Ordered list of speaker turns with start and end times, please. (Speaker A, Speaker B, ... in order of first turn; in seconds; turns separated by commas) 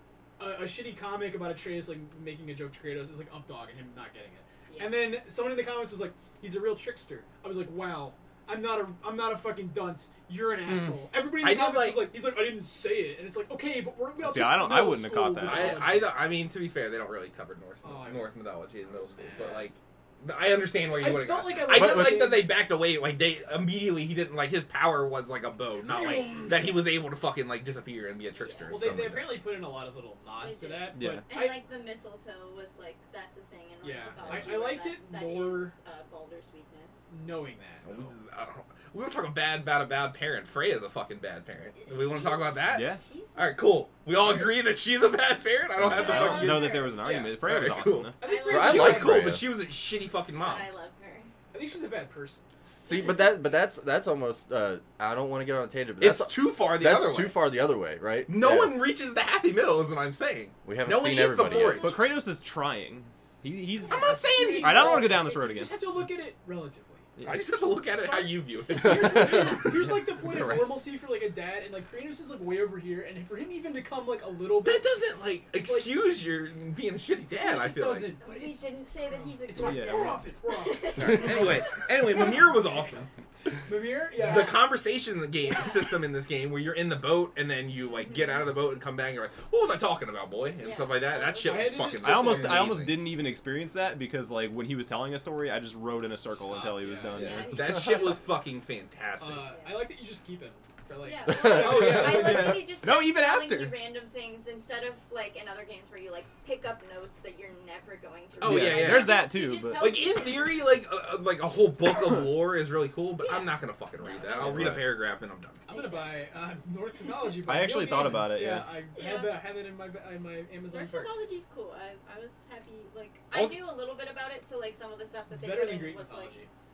Speaker A: 0.4-16.2, Speaker B: 4.7-5.1, Speaker C: 11.3-12.1, Speaker D: 14.2-15.9, Speaker C: 15.4-29.4, Speaker A: 17.8-19.7, Speaker A: 21.0-22.6, Speaker E: 21.7-22.3, Speaker A: 25.9-26.8, Speaker B: 25.9-26.7, Speaker B: 28.3-28.8, Speaker A: 28.7-31.6, Speaker B: 30.4-37.0, Speaker D: 30.9-31.3, Speaker A: 33.8-35.8, Speaker C: 34.2-34.6, Speaker A: 37.1-38.1, Speaker C: 37.8-50.7, Speaker B: 41.7-43.5, Speaker D: 42.7-43.0, Speaker D: 45.8-48.2, Speaker B: 45.9-47.0, Speaker A: 46.3-47.4, Speaker A: 48.2-49.2, Speaker B: 48.2-49.1, Speaker E: 48.5-49.5, Speaker B: 50.4-51.3, Speaker A: 51.5-52.4, Speaker E: 52.9-58.8, Speaker C: 56.0-57.5, Speaker C: 58.3-62.0, Speaker E: 60.6-61.9, Speaker B: 61.5-62.0, Speaker D: 61.8-65.8, Speaker B: 63.9-64.2, Speaker C: 63.9-65.1, Speaker A: 63.9-74.9, Speaker D: 67.2-67.7, Speaker C: 67.2-69.3, Speaker E: 68.8-69.7, Speaker D: 69.7-70.8, Speaker C: 74.6-78.1, Speaker A: 75.5-76.0, Speaker A: 77.4-83.1, Speaker B: 78.2-82.4, Speaker D: 79.6-80.2, Speaker C: 81.0-83.1, Speaker A: 83.7-84.6, Speaker B: 84.1-84.7, Speaker C: 84.2-93.1, Speaker B: 85.4-86.0, Speaker B: 87.9-88.5, Speaker B: 90.6-92.0, Speaker A: 91.5-92.7, Speaker D: 92.0-97.6, Speaker A: 96.3-97.4, Speaker B: 97.1-98.2, Speaker C: 97.2-99.5, Speaker A: 99.2-102.5, Speaker B: 99.4-99.8, Speaker B: 101.0-110.7, Speaker E: 101.3-101.8, Speaker C: 101.4-102.7, Speaker D: 101.9-103.8, Speaker C: 108.4-109.2, Speaker D: 108.4-110.0, Speaker C: 109.7-115.6, Speaker B: 113.2-114.8, Speaker D: 114.4-114.9, Speaker A: 115.7-121.2, Speaker B: 115.7-116.2, Speaker D: 117.5-118.8, Speaker B: 118.9-119.4, Speaker B: 120.7-126.4, Speaker C: 123.3-123.6, Speaker A: 125.3-126.5